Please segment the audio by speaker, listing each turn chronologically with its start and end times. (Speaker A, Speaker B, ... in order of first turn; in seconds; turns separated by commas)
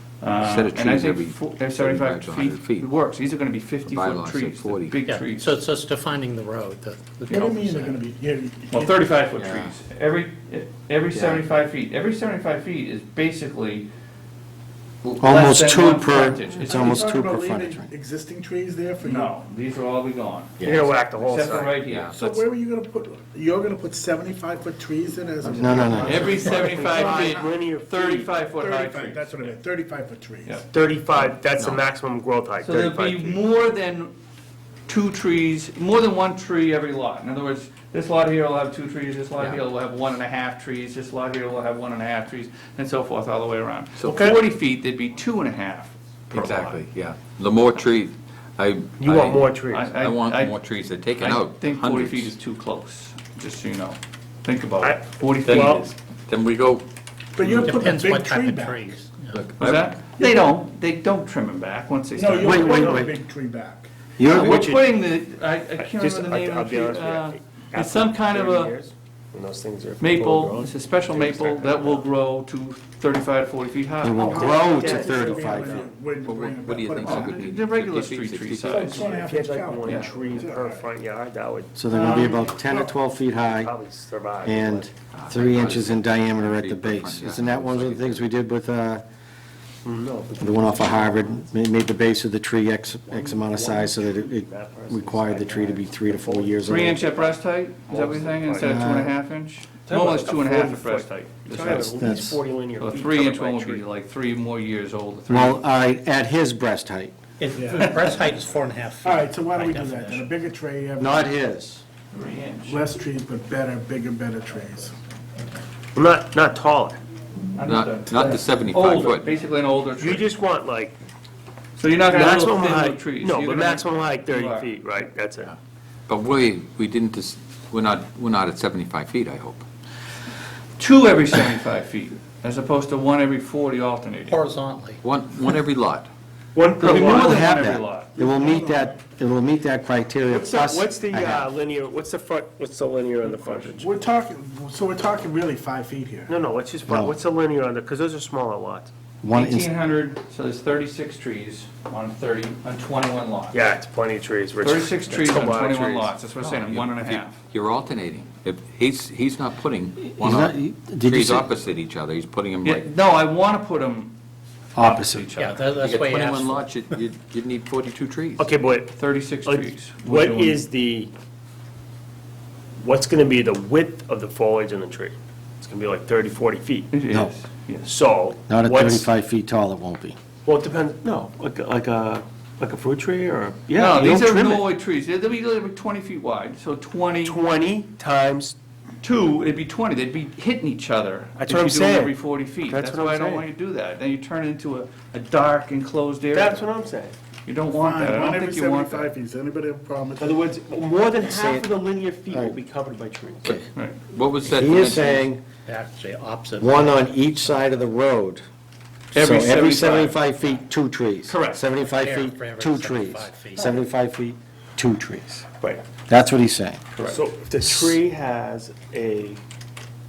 Speaker A: 0.2-5.5, Speaker B: 0.4-2.9, Speaker B: 3.8-5.0, Speaker C: 5.0-8.0, Speaker D: 7.3-8.9, Speaker A: 8.7-13.9, Speaker B: 9.4-9.7, Speaker B: 11.1-11.4, Speaker A: 15.0-17.1, Speaker E: 15.2-17.9, Speaker D: 16.6-19.3, Speaker A: 19.0-22.3, Speaker B: 20.6-20.9, Speaker F: 20.6-21.8, Speaker B: 21.9-22.3, Speaker D: 22.1-27.4, Speaker E: 25.5-26.4, Speaker F: 25.7-28.4, Speaker A: 26.0-29.5, Speaker D: 28.6-30.6, Speaker F: 30.7-33.4, Speaker B: 31.6-31.8, Speaker A: 32.6-34.1, Speaker A: 34.9-46.8, Speaker F: 44.0-44.4, Speaker B: 46.3-52.3, Speaker F: 49.0-49.9, Speaker A: 49.7-50.6, Speaker A: 51.2-55.9, Speaker F: 54.8-55.8, Speaker B: 55.5-56.8, Speaker D: 57.4-58.7, Speaker C: 57.4-59.4, Speaker B: 59.3-59.9, Speaker A: 59.6-63.0, Speaker D: 62.2-63.9, Speaker E: 62.4-63.1, Speaker F: 62.5-63.2, Speaker E: 64.2-64.7, Speaker A: 64.2-68.7, Speaker F: 64.3-64.9, Speaker F: 65.8-72.0, Speaker A: 70.0-74.4, Speaker E: 74.0-75.9, Speaker F: 74.2-76.1, Speaker D: 74.3-77.4, Speaker B: 76.2-79.1, Speaker A: 76.9-79.0, Speaker D: 78.7-80.9, Speaker F: 78.8-82.5, Speaker A: 79.8-80.1, Speaker E: 81.8-83.7, Speaker D: 82.0-82.9, Speaker F: 83.4-84.9, Speaker E: 84.4-89.0, Speaker B: 85.1-88.3, Speaker F: 89.8-91.5, Speaker E: 90.4-97.0, Speaker F: 93.1-97.3, Speaker A: 96.7-101.9, Speaker F: 97.9-98.8, Speaker E: 98.6-99.1, Speaker F: 99.9-103.8, Speaker E: 101.5-102.4, Speaker A: 102.8-105.6, Speaker E: 105.3-107.1, Speaker C: 107.4-110.3, Speaker D: 109.0-111.2, Speaker E: 111.0-111.8, Speaker A: 112.1-112.8, Speaker D: 112.7-114.9, Speaker F: 115.9-117.0, Speaker A: 117.5-120.3, Speaker B: 117.6-119.3, Speaker F: 120.0-121.0, Speaker A: 121.8-124.7, Speaker F: 122.0-125.5, Speaker B: 126.1-129.6, Speaker A: 130.8-134.4, Speaker C: 134.3-135.0, Speaker B: 135.0-136.1, Speaker F: 136.5-137.4, Speaker A: 136.8-138.1, Speaker E: 136.9-141.5, Speaker D: 138.2-138.9, Speaker F: 140.3-144.0, Speaker D: 143.3-146.3, Speaker F: 146.3-148.9, Speaker E: 146.9-147.1, Speaker E: 149.2-149.8, Speaker A: 149.3-153.7, Speaker F: 153.5-156.1, Speaker A: 154.6-157.4, Speaker B: 156.4-162.9, Speaker E: 160.1-161.5, Speaker A: 162.6-164.1, Speaker E: 164.7-165.2, Speaker A: 164.7-165.7, Speaker C: 165.3-166.7, Speaker B: 165.8-168.5, Speaker F: 168.4-171.1, Speaker A: 168.9-170.6, Speaker F: 172.8-176.9, Speaker A: 176.9-177.9, Speaker F: 177.8-179.1, Speaker E: 178.5-180.2, Speaker F: 180.4-184.6, Speaker A: 183.7-187.4, Speaker F: 187.2-188.6, Speaker A: 189.0-196.7, Speaker F: 191.4-193.4, Speaker F: 196.3-197.2, Speaker A: 197.4-199.1, Speaker D: 197.7-200.4, Speaker F: 200.2-203.6, Speaker E: 201.2-201.7, Speaker E: 202.3-202.6, Speaker B: 203.4-205.3, Speaker C: 204.5-204.8, Speaker E: 204.5-205.4, Speaker C: 205.7-207.6, Speaker E: 206.6-208.4, Speaker A: 209.1-210.2, Speaker E: 209.1-215.4, Speaker F: 211.3-211.6, Speaker C: 211.9-213.8, Speaker E: 216.1-216.8, Speaker A: 216.9-217.2, Speaker F: 217.0-219.4